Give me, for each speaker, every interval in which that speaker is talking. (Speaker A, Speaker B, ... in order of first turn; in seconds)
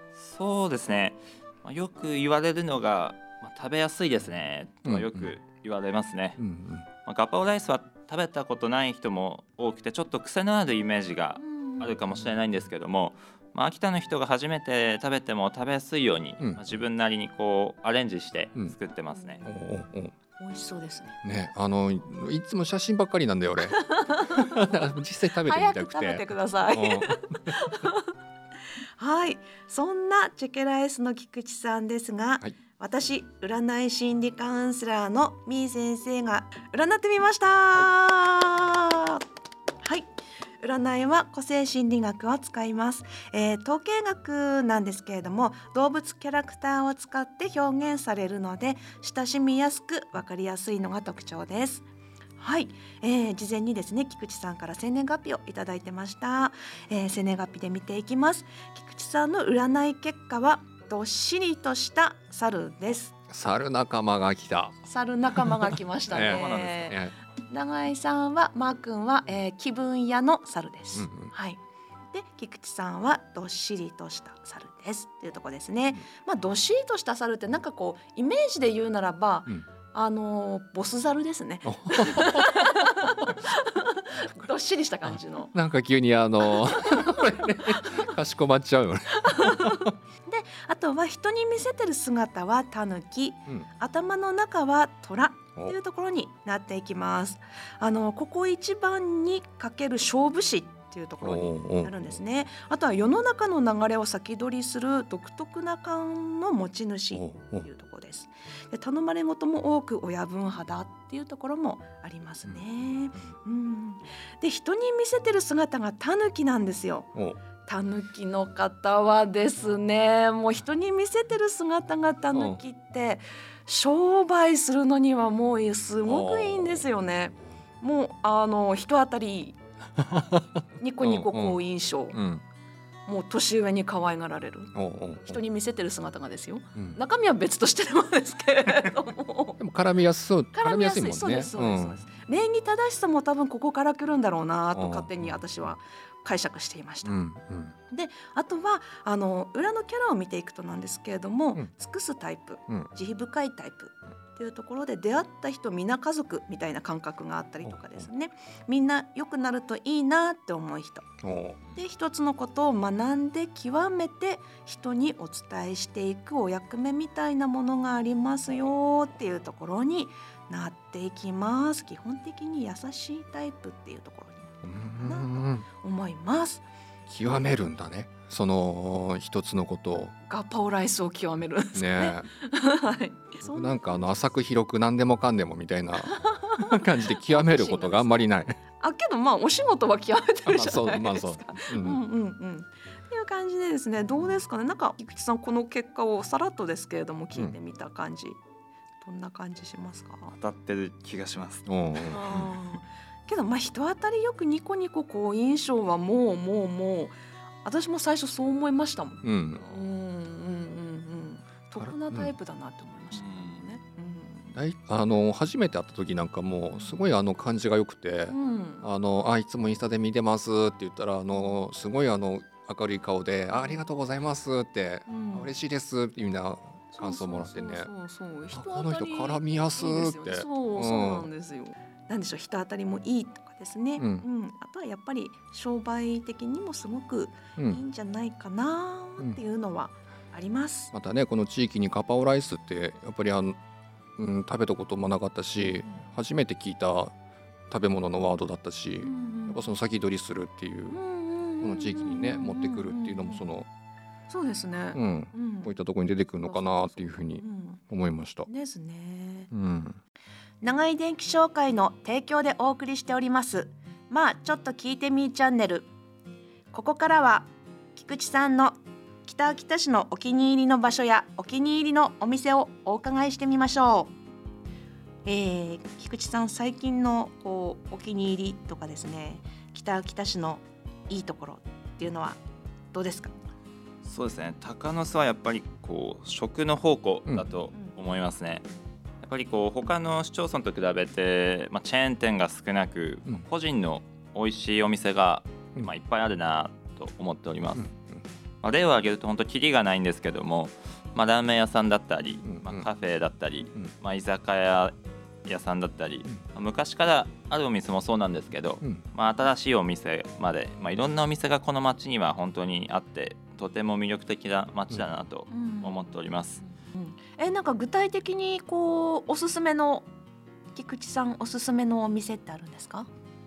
Speaker A: 0.1-6.4, 7.0-19.4, 66.1-67.0, 200.3-202.5, 213.1-213.7, 284.0-288.7, 289.2-297.9, 298.6-316.6
Speaker B: 4.9-5.3, 6.4-6.9, 19.4-20.1, 21.2-27.6, 63.3-64.8, 66.1-67.1, 70.9-71.3, 81.6-83.3, 85.1-89.9, 101.2-101.9, 107.1-107.7, 122.3-122.6, 126.0-126.8, 130.0-130.4, 131.0-131.6, 132.1-132.4, 134.8-135.4, 139.6-142.0, 144.7-145.4, 147.0-147.8, 157.6-158.1, 161.2-161.6, 174.6-175.7, 177.1-180.1, 181.7-182.3, 183.4-188.6, 190.4-192.0, 201.7-202.4, 209.2-209.6, 211.8-212.3, 214.6-227.9, 228.5-231.3, 234.0-234.2, 240.9-243.6, 244.2-247.1, 247.7-251.0, 251.6-253.7, 254.9-258.5, 259.5-260.0, 297.8-298.2, 302.4-302.9
Speaker C: 11.4-11.9, 19.1-19.5, 20.4-21.2, 23.7-24.6, 25.4-28.1, 29.0-39.2, 39.8-40.1, 40.6-51.9, 52.4-63.1, 64.8-71.6, 72.1-85.5, 86.4-88.1, 89.1-117.1, 117.6-129.6, 130.8-132.2, 133.1-134.7, 135.2-139.6, 140.5-147.2, 147.9-161.1, 161.7-176.6, 180.2-183.8, 186.1-188.3, 188.8-198.4, 199.0-200.3, 202.1-214.6, 216.8-217.0, 218.3-218.9, 221.3-221.6, 223.5-223.9, 225.1-225.5, 226.9-240.9, 249.0-249.7, 250.9-253.4, 254.3-255.7, 256.4-257.8, 258.5-259.5, 260.6-265.9, 266.7-274.1, 275.2-282.4, 282.9-283.3, 315.5-316.1, 316.9-320.1, 320.7-323.1